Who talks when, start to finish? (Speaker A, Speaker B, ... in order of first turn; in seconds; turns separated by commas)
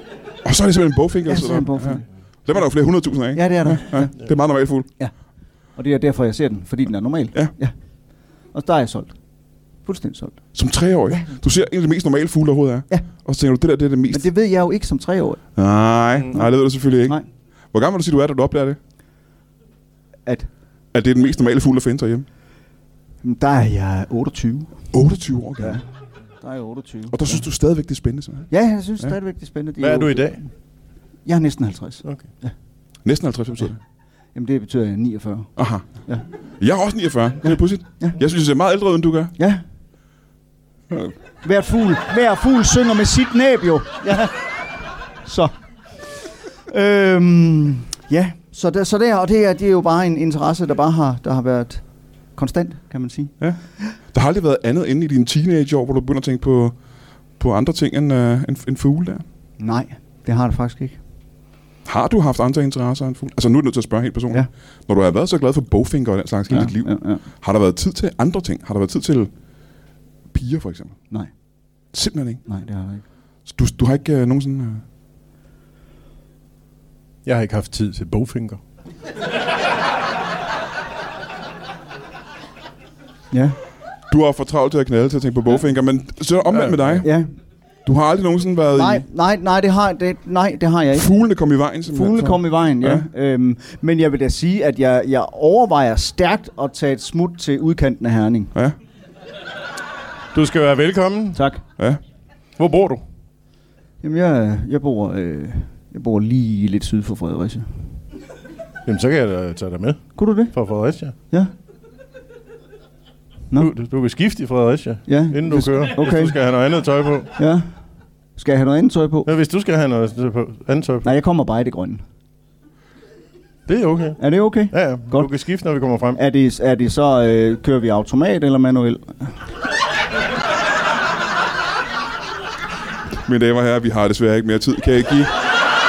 Speaker A: 0.4-4.9, Speaker B: 1.3-2.0, Speaker B: 3.3-4.1, Speaker B: 5.8-7.7, Speaker B: 8.5-9.2, Speaker B: 9.8-10.4, Speaker A: 10.5-14.3, Speaker B: 11.1-11.4, Speaker B: 14.1-15.4, Speaker A: 15.6-17.2, Speaker A: 17.7-18.8, Speaker A: 20.9-22.2, Speaker B: 23.2-24.8, Speaker A: 24.9-25.8, Speaker B: 25.6-25.9, Speaker B: 26.4-27.4, Speaker A: 27.1-28.5, Speaker B: 28.5-30.5, Speaker C: 29.8-30.4, Speaker B: 31.2-32.5, Speaker A: 33.0-33.8, Speaker B: 34.3-35.5, Speaker A: 35.6-35.9, Speaker A: 36.6-39.3, Speaker B: 37.4-38.1, Speaker B: 41.4-44.7, Speaker B: 45.2-45.5, Speaker B: 46.6-53.3, Speaker A: 53.4-56.8, Speaker A: 57.4-59.2, Speaker B: 59.6-61.0, Speaker A: 61.9-69.3, Speaker B: 66.5-67.2, Speaker A: 70.3-71.0, Speaker A: 71.9-72.4, Speaker B: 72.5-73.0, Speaker A: 73.5-74.8, Speaker C: 77.2-78.6, Speaker B: 83.3-83.6, Speaker A: 84.1-87.1, Speaker C: 86.5-87.0, Speaker B: 87.0-87.3, Speaker A: 87.8-89.0, Speaker B: 88.7-91.1, Speaker A: 90.9-93.0, Speaker B: 91.8-98.5, Speaker C: 100.3-101.4, Speaker B: 101.3-101.6, Speaker C: 102.6-103.0, Speaker B: 104.0-107.7, Speaker C: 108.8-111.1, Speaker B: 110.2-110.5, Speaker C: 113.6-117.3, Speaker B: 115.1-116.3, Speaker B: 117.3-117.7, Speaker B: 118.4-119.3, Speaker C: 119.2-121.1, Speaker B: 121.0-122.0, Speaker C: 123.7-126.2, Speaker B: 124.2-125.3, Speaker B: 126.1-129.4, Speaker A: 133.2-135.3